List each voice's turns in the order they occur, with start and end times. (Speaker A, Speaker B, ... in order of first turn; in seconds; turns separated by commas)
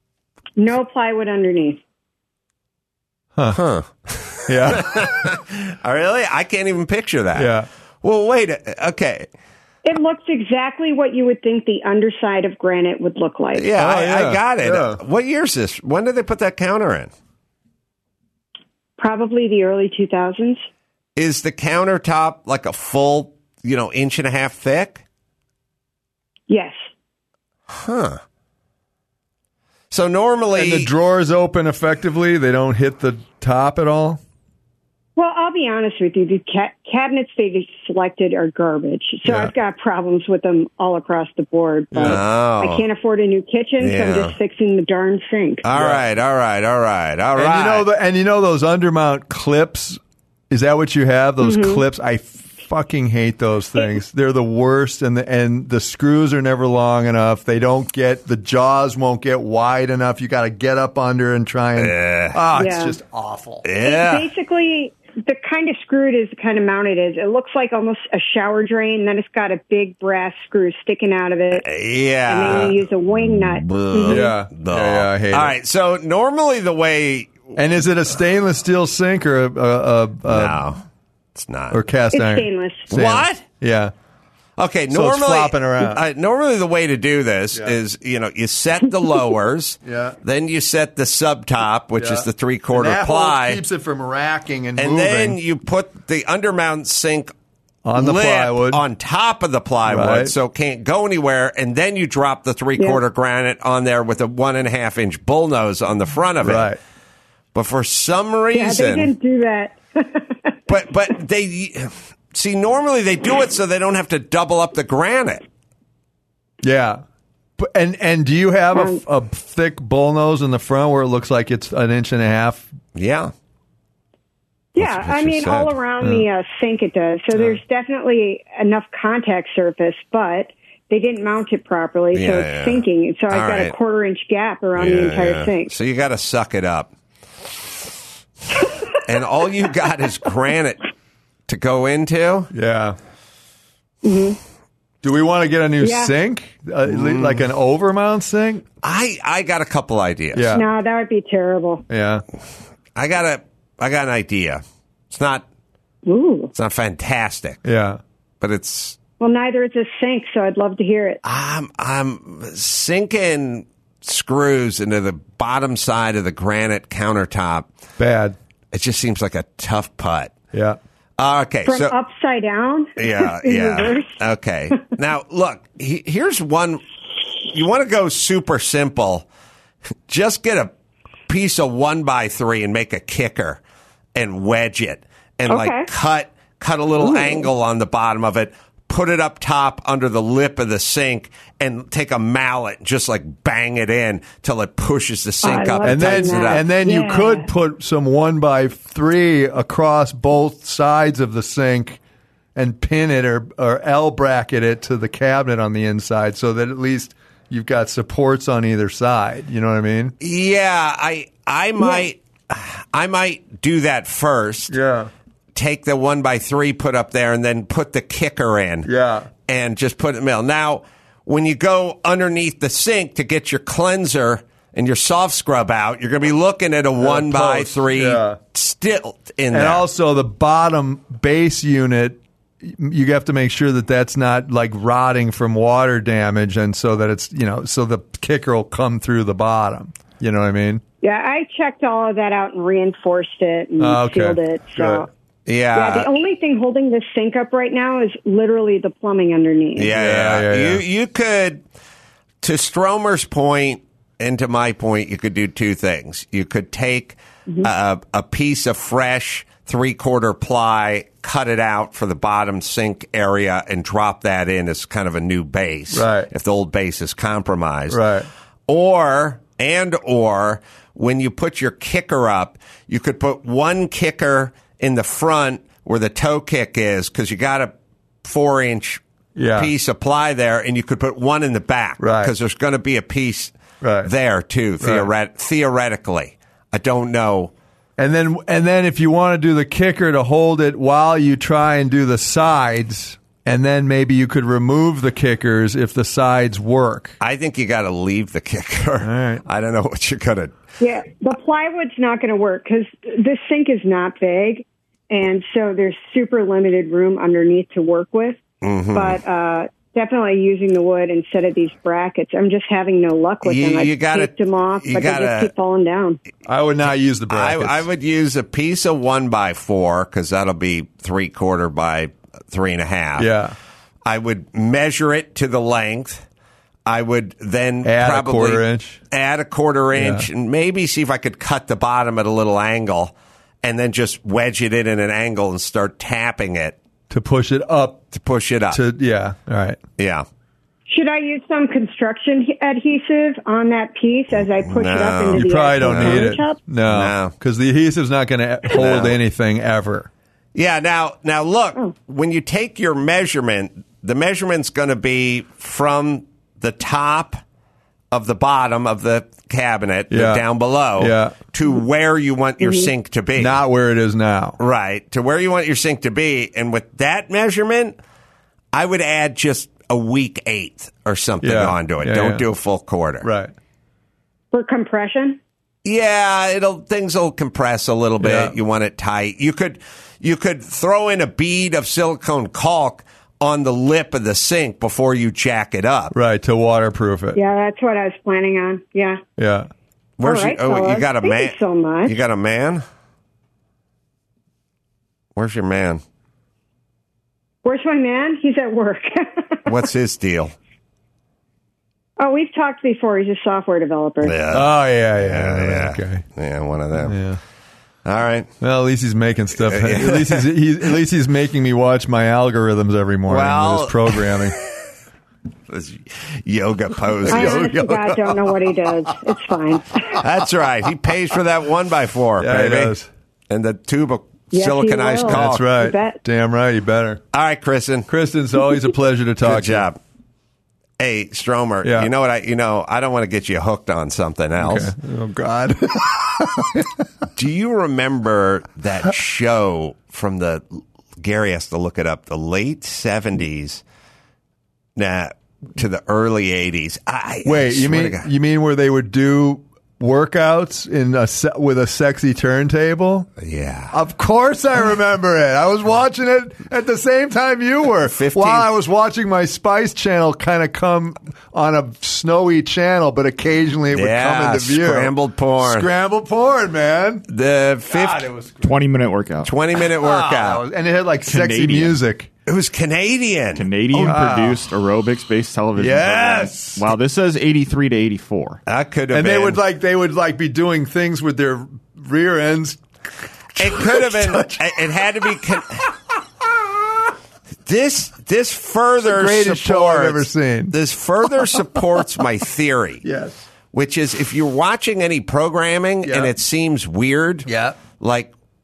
Speaker A: 0.6-1.8, Speaker B: 3.5-9.3, Speaker C: 4.5-5.1, Speaker C: 7.3-7.7, Speaker A: 9.8-13.7, Speaker B: 13.5-17.1, Speaker C: 13.8-15.0, Speaker A: 19.0-20.6, Speaker B: 21.1-25.0, Speaker A: 26.5-26.8, Speaker B: 27.7-28.2, Speaker B: 29.9-30.9, Speaker C: 30.5-34.2, Speaker A: 35.1-45.6, Speaker C: 39.2-39.5, Speaker C: 41.9-42.2, Speaker B: 42.0-42.8, Speaker B: 43.8-44.3, Speaker B: 45.6-47.9, Speaker C: 45.7-46.0, Speaker C: 47.4-50.0, Speaker C: 50.5-63.6, Speaker A: 51.4-51.8, Speaker B: 61.8-62.4, Speaker A: 62.5-63.0, Speaker B: 63.6-64.3, Speaker A: 63.8-71.7, Speaker B: 71.6-72.8, Speaker A: 72.2-74.3, Speaker B: 73.3-77.5, Speaker C: 74.0-75.5, Speaker C: 77.5-80.6, Speaker B: 80.3-80.8, Speaker B: 81.3-81.8, Speaker C: 81.7-83.9, Speaker A: 82.1-82.9, Speaker B: 82.9-83.5, Speaker B: 84.6-93.6, Speaker C: 84.9-86.0, Speaker C: 89.8-90.2, Speaker C: 92.0-95.4, Speaker B: 94.8-97.3, Speaker C: 97.8-98.8, Speaker B: 97.9-106.7, Speaker C: 99.9-100.3, Speaker C: 106.4-106.8, Speaker B: 107.5-109.1, Speaker A: 108.5-110.7, Speaker B: 110.7-115.4, Speaker C: 116.6-117.0, Speaker C: 117.6-122.7, Speaker A: 118.7-119.0, Speaker B: 122.9-123.3, Speaker A: 124.7-135.8, Speaker B: 124.8-125.7, Speaker B: 132.1-133.7, Speaker B: 134.8-136.9, Speaker B: 139.0-140.8, Speaker B: 141.5-142.5, Speaker C: 142.5-143.0, Speaker A: 144.0-144.4, Speaker C: 145.0-148.6, Speaker A: 145.8-146.2, Speaker B: 146.8-147.5, Speaker B: 148.8-150.5, Speaker C: 150.3-150.7, Speaker A: 150.5-151.8, Speaker C: 151.9-152.2, Speaker B: 152.9-155.4, Speaker A: 156.0-156.5, Speaker B: 156.5-157.6, Speaker C: 157.6-158.0, Speaker B: 158.4-159.0, Speaker A: 159.2-161.2, Speaker B: 161.2-167.7, Speaker C: 168.0-168.3, Speaker B: 168.7-170.3, Speaker C: 170.5-170.8, Speaker B: 171.2-171.9, Speaker A: 171.6-174.2, Speaker B: 173.0-176.8, Speaker B: 177.4-179.3, Speaker B: 180.1-180.7, Speaker B: 181.3-183.6, Speaker B: 184.1-196.7, Speaker A: 185.5-185.9, Speaker A: 187.0-187.5, Speaker A: 195.4-197.5, Speaker C: 195.8-202.0, Speaker C: 202.6-210.1, Speaker B: 210.2-214.8, Speaker A: 211.8-212.1, Speaker C: 214.7-215.1, Speaker B: 215.5-218.9, Speaker C: 218.8-219.3, Speaker B: 219.4-229.8, Speaker C: 227.0-228.4, Speaker C: 229.5-240.8, Speaker A: 241.0-245.1, Speaker C: 243.8-245.1, Speaker B: 245.5-246.1, Speaker A: 245.7-249.9, Speaker B: 249.8-251.6, Speaker C: 249.9-250.8, Speaker B: 252.4-268.0, Speaker C: 265.9-266.3, Speaker C: 267.9-268.3, Speaker B: 268.7-279.0, Speaker C: 279.4-279.7, Speaker B: 279.5-287.5, Speaker C: 282.0-282.3, Speaker C: 283.8-284.1, Speaker C: 284.8-285.1, Speaker C: 288.0-297.1, Speaker B: 297.2-300.5, Speaker C: 299.0-299.4, Speaker A: 300.8-308.4, Speaker B: 308.6-309.2, Speaker A: 308.9-316.2, Speaker B: 313.4-315.5, Speaker C: 316.4-317.8, Speaker B: 317.3-323.3, Speaker C: 323.2-323.5, Speaker B: 324.0-326.2, Speaker B: 326.9-336.8, Speaker C: 327.8-329.0, Speaker C: 329.9-330.2, Speaker C: 337.1-338.0, Speaker B: 338.1-338.8, Speaker C: 338.7-339.8, Speaker B: 340.0-340.2, Speaker A: 340.9-346.6, Speaker B: 344.6-347.3, Speaker C: 345.3-350.1, Speaker B: 348.7-349.2, Speaker B: 350.5-357.4, Speaker B: 358.1-363.6, Speaker C: 360.1-360.4, Speaker C: 361.0-361.4, Speaker A: 362.6-362.9, Speaker C: 363.4-364.6, Speaker B: 364.6-368.0, Speaker B: 368.7-373.3, Speaker C: 371.4-372.4, Speaker C: 373.2-373.5, Speaker A: 374.5-375.4, Speaker B: 375.8-386.1, Speaker C: 378.2-378.5, Speaker C: 386.1-387.4, Speaker A: 387.3-389.2, Speaker C: 389.4-389.7, Speaker B: 390.2-392.8, Speaker A: 390.2-392.2, Speaker B: 395.4-396.0, Speaker A: 397.6-399.8, Speaker B: 399.6-400.5, Speaker A: 402.2-404.4, Speaker B: 404.2-407.2, Speaker C: 404.5-406.2, Speaker C: 407.0-407.4, Speaker B: 408.0-408.5, Speaker C: 408.6-414.5, Speaker B: 409.6-410.5, Speaker B: 413.3-414.6, Speaker B: 415.7-418.4, Speaker A: 417.2-420.2, Speaker C: 417.3-417.6, Speaker B: 420.2-423.0, Speaker C: 422.4-423.1, Speaker B: 423.5-425.7, Speaker A: 424.5-426.2, Speaker C: 425.3-427.2, Speaker B: 427.3-428.1, Speaker C: 428.1-429.9, Speaker B: 429.4-430.0, Speaker B: 431.0-434.9, Speaker C: 431.8-432.1, Speaker C: 434.6-436.8, Speaker B: 437.4-443.8, Speaker B: 444.9-448.3, Speaker C: 447.4-453.3, Speaker B: 453.4-453.9, Speaker C: 453.9-467.2, Speaker B: 458.0-458.7, Speaker B: 463.9-465.9, Speaker B: 467.3-468.3, Speaker C: 467.9-468.7, Speaker D: 468.6-469.5, Speaker B: 469.4-470.6, Speaker C: 469.8-472.3, Speaker D: 471.2-472.0, Speaker B: 472.4-473.7, Speaker D: 473.5-478.6, Speaker C: 473.9-474.6, Speaker C: 475.8-476.9, Speaker B: 478.7-479.6, Speaker C: 479.1-482.8, Speaker B: 483.6-485.8, Speaker C: 483.6-484.6, Speaker B: 487.6-493.0, Speaker C: 489.0-490.8, Speaker C: 493.0-493.4, Speaker B: 493.7-498.3, Speaker C: 496.0-496.3, Speaker C: 497.5-497.8